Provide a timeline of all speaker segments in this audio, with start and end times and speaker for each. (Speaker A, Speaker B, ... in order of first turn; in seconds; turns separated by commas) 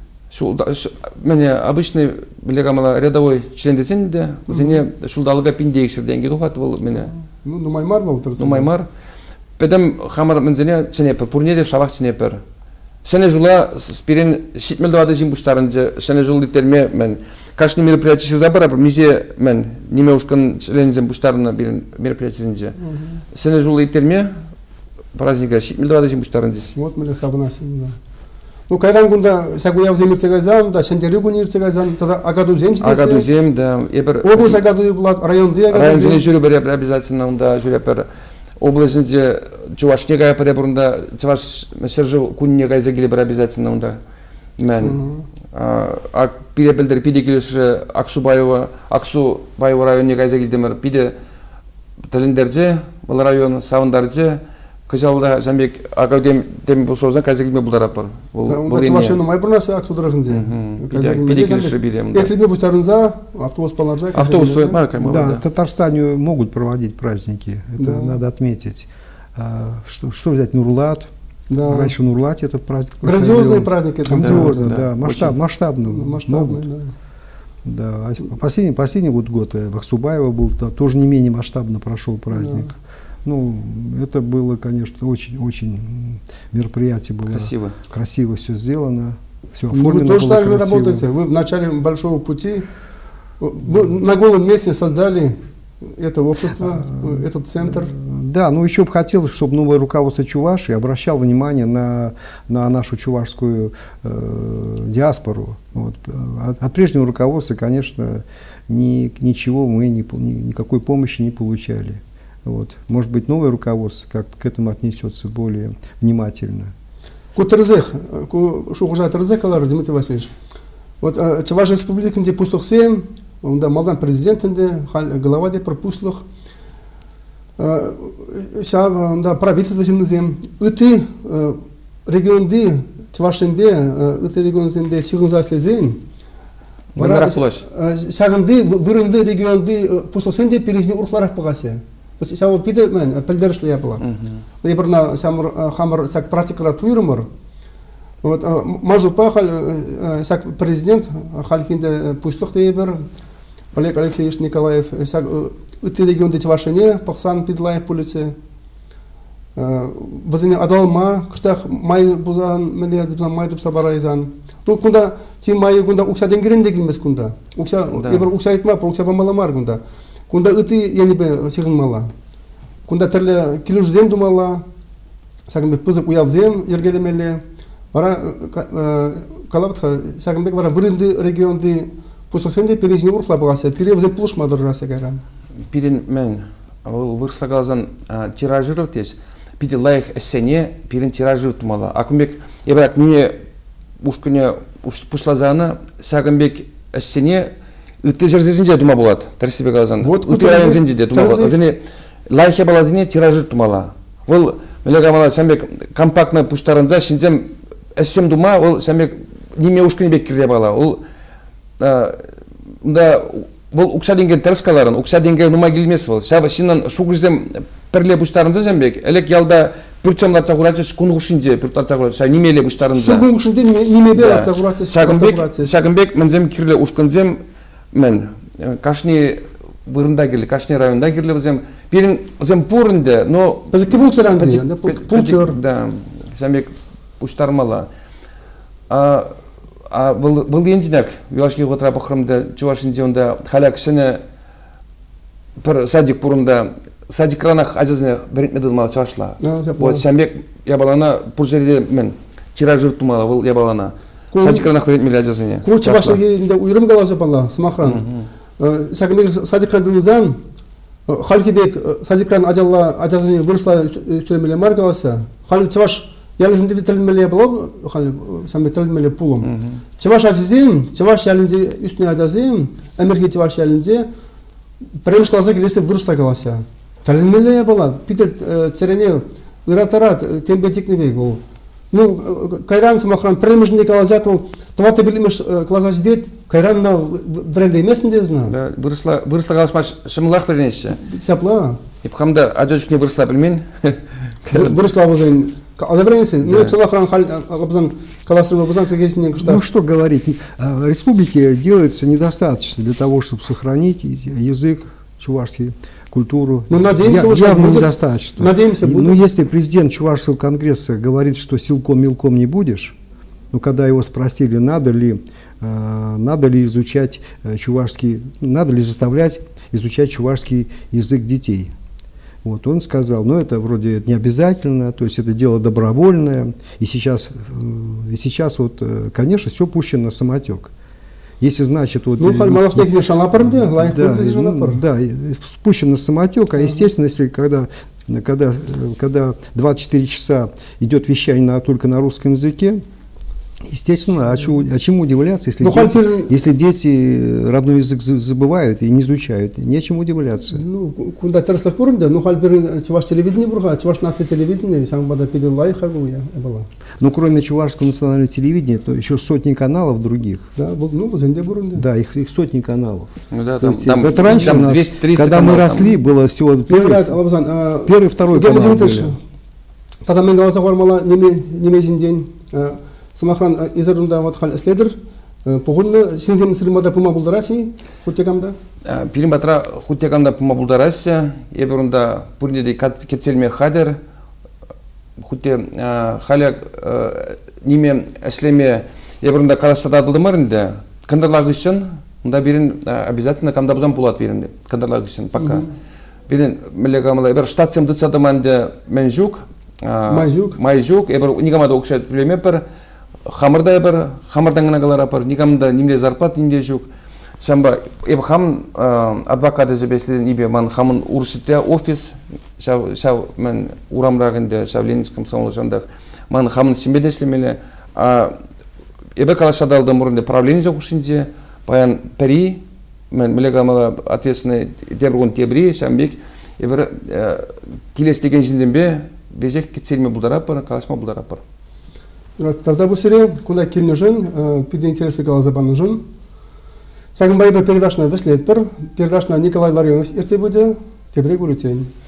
Speaker A: 0.3-7.1, Speaker B: 4.5-4.8, Speaker B: 7.0-8.7, Speaker A: 8.4-8.9, Speaker A: 9.6-12.4, Speaker A: 13.0-22.8, Speaker B: 22.8-23.2, Speaker A: 23.3-24.3, Speaker A: 25.1-26.7, Speaker B: 26.7-28.0, Speaker B: 28.7-33.3, Speaker A: 32.8-34.6, Speaker B: 34.2-36.2, Speaker A: 35.7-38.1, Speaker A: 38.6-44.0, Speaker A: 44.6-45.0, Speaker B: 44.8-45.3, Speaker A: 45.5-51.1, Speaker A: 52.1-59.2, Speaker B: 58.5-64.8, Speaker A: 60.3-62.3, Speaker A: 64.1-65.4, Speaker C: 65.0-71.1, Speaker B: 67.8-68.2, Speaker B: 71.5-71.9, Speaker C: 71.7-76.7, Speaker B: 73.0-74.7, Speaker A: 74.1-75.3, Speaker B: 75.9-76.9, Speaker C: 77.6-91.0, Speaker B: 82.3-82.7, Speaker A: 87.3-87.8, Speaker B: 89.7-92.7, Speaker B: 93.4-97.9, Speaker C: 96.8-116.7, Speaker B: 117.3-120.3, Speaker B: 121.0-126.2, Speaker B: 127.6-136.0, Speaker A: 136.9-137.6, Speaker B: 137.0-144.0, Speaker A: 144.0-144.4, Speaker B: 144.6-147.3, Speaker B: 148.2-153.1, Speaker B: 153.7-158.3, Speaker B: 159.6-172.1, Speaker A: 167.9-168.3, Speaker B: 172.9-174.6, Speaker B: 175.5-177.4, Speaker B: 177.9-185.2, Speaker A: 185.7-193.4, Speaker A: 194.0-197.5, Speaker A: 198.0-211.0, Speaker B: 200.0-201.6, Speaker A: 211.8-212.3, Speaker A: 212.8-223.2, Speaker B: 222.8-225.8, Speaker A: 224.1-227.4, Speaker A: 227.9-237.9, Speaker B: 233.7-235.6, Speaker A: 238.9-239.3, Speaker A: 239.9-244.2, Speaker A: 245.6-256.2, Speaker B: 249.4-250.0, Speaker B: 254.3-254.7, Speaker B: 255.6-258.1, Speaker A: 257.8-258.3, Speaker B: 258.6-260.4, Speaker B: 261.1-274.1, Speaker A: 269.4-269.8, Speaker B: 275.0-288.5, Speaker A: 288.4-291.0, Speaker B: 291.0-291.8, Speaker A: 292.0-294.8, Speaker B: 294.5-299.6, Speaker A: 296.4-296.7, Speaker C: 299.3-312.9, Speaker B: 306.7-309.2, Speaker C: 313.5-321.7, Speaker C: 322.4-330.7, Speaker C: 331.4-342.8, Speaker B: 332.2-334.8, Speaker C: 343.6-350.6, Speaker B: 345.6-346.3, Speaker B: 350.5-356.7, Speaker C: 357.0-360.5, Speaker B: 360.6-361.9, Speaker C: 361.7-363.1, Speaker A: 363.3-365.9, Speaker C: 363.6-367.2, Speaker B: 366.7-369.2, Speaker C: 367.8-369.1, Speaker B: 370.1-378.6, Speaker A: 378.9-384.0, Speaker A: 385.2-395.6, Speaker B: 395.4-395.6, Speaker A: 396.3-402.6, Speaker B: 400.1-400.6, Speaker A: 403.2-406.9, Speaker A: 407.4-418.3, Speaker A: 419.2-431.4, Speaker B: 432.4-436.0, Speaker B: 437.1-441.9